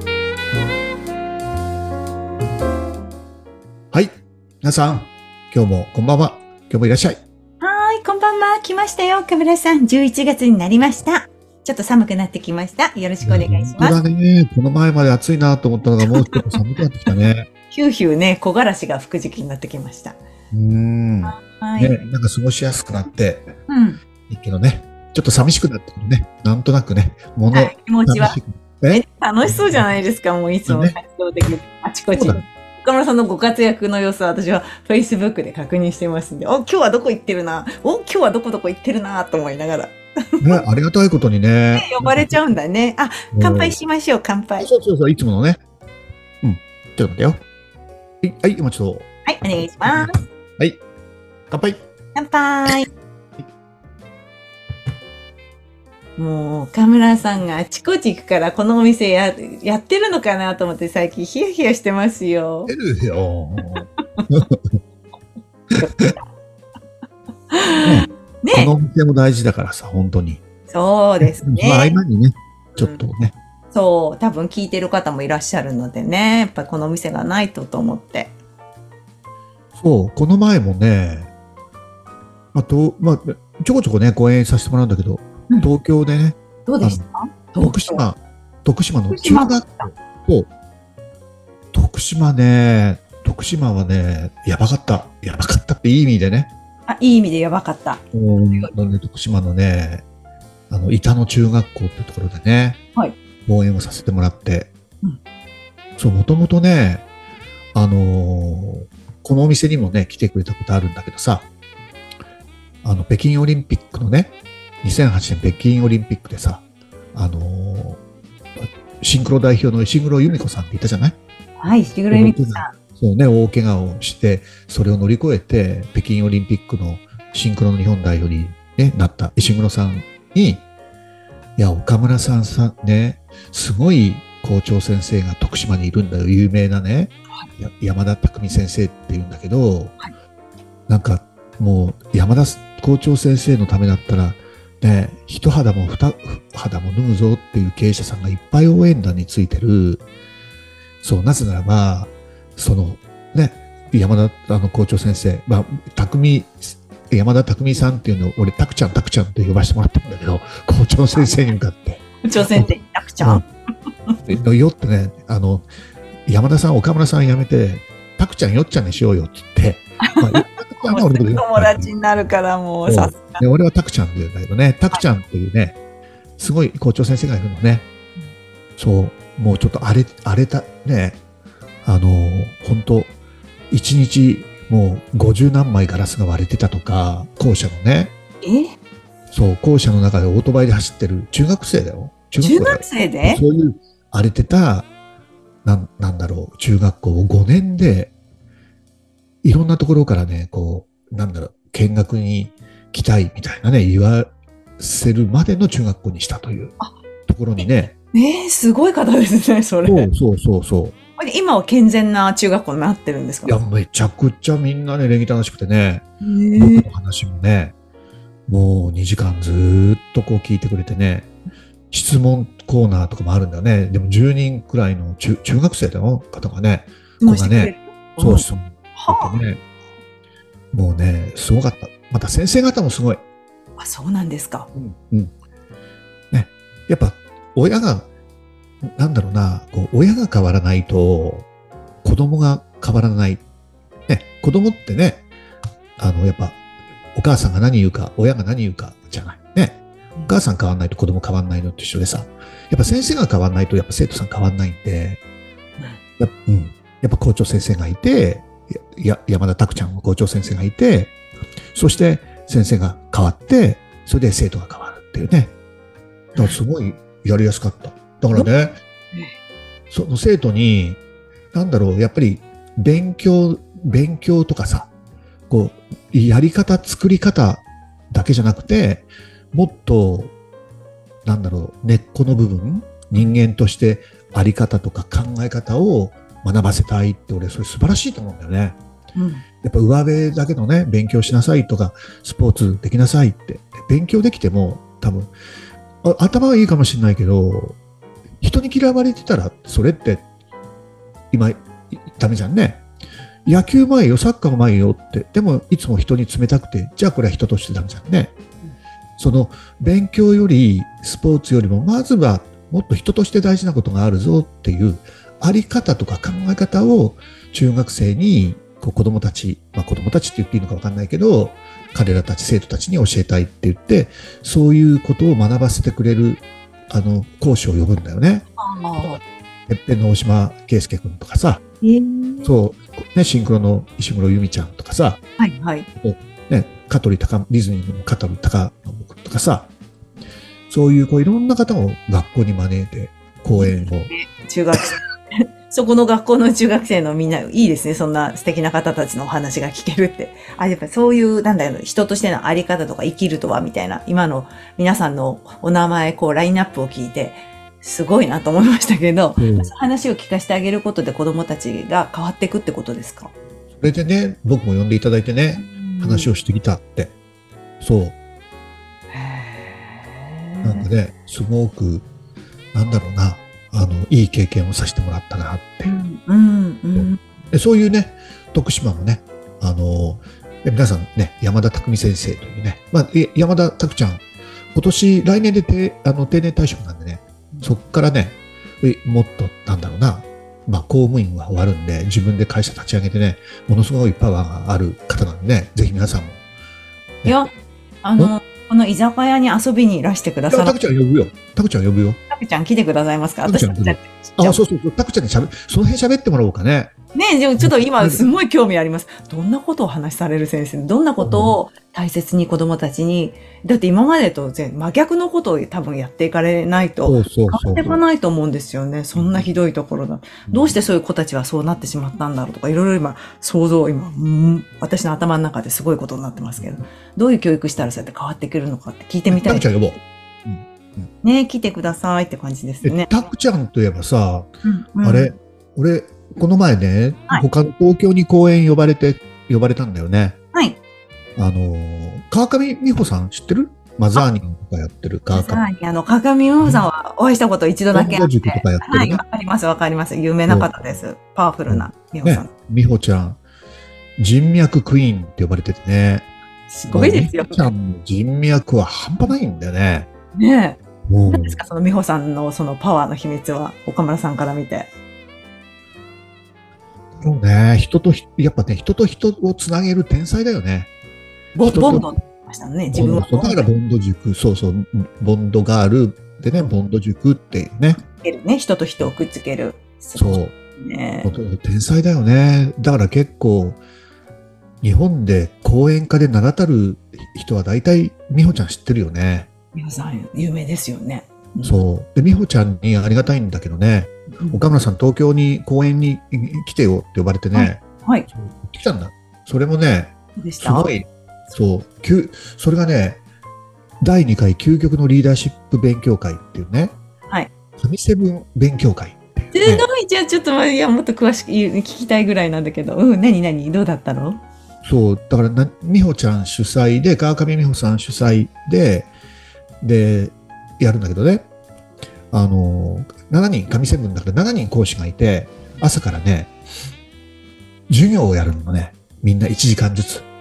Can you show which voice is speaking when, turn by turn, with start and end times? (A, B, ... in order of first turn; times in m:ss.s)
0:03.9-0:07.2 A
0:07.6-0:14.0 B
0:13.2-0:17.5 A
0:16.0-0:16.4 B
0:17.7-0:20.2 B
0:20.5-0:23.5 A
0:21.2-0:22.0 B
0:23.7-0:24.0 B
0:24.3-0:29.9 A
0:27.5-0:28.4 B
0:28.9-0:40.0 B
0:30.7-0:31.0 A
0:32.1-0:32.4 A
0:40.4-0:42.4 A
0:41.7-0:44.7 B
0:43.3-0:43.8 A
0:44.6-0:45.6 A
0:46.4-0:47.4 A
0:48.2-0:49.1 A
0:49.2-0:50.2 B
0:49.8-0:50.8 A
0:51.5-0:51.8 A
0:52.1-0:52.9 B
0:56.2-1:02.7 B
1:02.7-1:04.8 A
1:03.8-1:04.2 B
1:05.8-1:06.2 B
1:05.8-1:06.1 A
1:07.5-1:08.7 B
1:07.8-1:10.4 A
1:10.7-1:12.0 B
1:11.2-1:13.3 A
1:12.8-1:13.0 B
1:13.7-1:18.3 B
1:19.8-1:21.3 A
1:22.5-1:27.0 A
1:26.6-1:28.0 B
1:27.6-1:30.5 A
1:29.1-1:29.9 B
1:31.7-1:36.5 A
1:36.9-1:38.7 B
1:38.1-1:40.0 A
1:40.7-1:42.8 A
1:43.4-1:44.7 A
1:46.0-1:47.0 A
1:47.7-1:51.5 A
1:52.8-1:58.0 A
1:59.0-2:01.2 A
2:01.6-2:02.7 B
2:02.1-2:10.6 A
2:11.6-2:20.0 A
2:20.9-2:30.0 A
2:31.0-2:42.7 A
2:42.2-2:43.4 B
2:44.2-2:45.7 A
2:46.2-2:51.9 A
2:50.2-2:53.4 B
2:52.8-2:55.8 A
2:56.4-2:57.9 A
2:58.8-3:01.2 A
3:01.8-3:03.2 A
3:03.7-3:08.1 A
3:08.4-3:08.7 B
3:09.3-3:14.9 A
3:12.4-3:13.4 B
3:15.6-3:18.1 A
3:19.4-3:24.3 A
3:24.8-3:26.7 A
3:27.3-3:27.9 A
3:28.1-3:30.1 B
3:29.8-3:30.9 A
3:31.2-3:33.6 B
3:33.4-3:37.7 A
3:36.2-3:36.9 B
3:38.5-3:41.3 A
3:41.9-3:49.6 A
3:47.2-3:49.4 B
3:50.7-3:53.2 A
3:53.8-3:54.7 B
3:54.7-3:55.3 A
3:56.3-3:58.1 A
3:58.8-4:01.5 A
4:02.0-4:03.4 A
4:04.1-4:05.2 A
4:06.0-4:06.6 A
4:07.1-4:15.2 A
4:16.2-4:21.1 A
4:21.7-4:25.5 A
4:26.4-4:28.8 A
4:29.9-4:31.0 A
4:31.5-4:34.9 A
4:35.5-4:40.3 A
4:41.2-4:48.8 A
4:49.1-4:49.4 B
4:49.6-4:55.3 A
4:56.0-4:57.8 A
4:58.4-5:00.2 A
5:01.3-5:02.8 A
5:03.4-5:08.4 A
5:09.2-5:28.4 A
5:28.6-5:29.2 B
5:29.0-5:31.6 A
5:31.8-5:32.6 B
5:32.4-5:35.2 A
5:35.4-5:35.9 B
5:36.0-5:39.7 A
5:40.7-5:44.1 A
5:43.5-6:03.3 B
5:59.4-5:59.7 A
6:03.8-6:07.1 A
6:05.6-6:06.3 B
6:07.8-6:08.2 A
6:09.1-6:10.8 B
6:10.6-6:12.1 A
6:12.7-6:15.9 A
6:15.8-6:17.2 B
6:16.9-6:36.4 A
6:37.2-6:37.5 B
6:38.0-6:40.8 B
6:40.5-6:42.2 A
6:42.3-6:44.6 B
6:43.4-6:46.9 A
6:47.1-7:09.6 B
6:47.6-6:48.2 A
6:51.2-6:51.6 A
6:57.0-6:58.0 A
6:59.2-6:59.4 A
7:00.5-7:00.7 A
7:09.3-7:11.1 A
7:11.2-7:13.1 B
7:12.8-7:14.5 A
7:14.6-7:15.3 B
7:15.0-7:20.4 A
7:21.4-7:25.6 A
7:25.3-7:32.5 B
7:27.9-7:29.2 A
7:31.7-7:33.4 A
7:34.2-7:36.3 A
7:36.7-7:37.6 B
7:36.9-7:40.1 A
7:40.3-7:40.8 B
7:41.1-7:41.6 A
7:41.3-7:44.9 B
7:47.2-7:50.9 A
7:51.5-7:53.7 B
7:51.6-7:52.1 A
7:52.9-7:58.0 A
7:58.0-8:01.3 B
8:00.2-8:00.5 A
8:01.2-8:03.8 A
8:04.8-8:09.5 A
8:09.7-8:11.8 B
8:11.6-8:23.2 A
8:14.4-8:14.7 B
8:17.5-8:18.3 B
8:20.4-8:20.9 B
8:24.0-8:26.9 A
8:27.8-8:29.9 A
8:29.5-8:34.4 B
8:34.8-8:39.1 A
8:39.8-8:41.5 A
8:42.3-8:46.5 A
8:47.9-8:50.2 A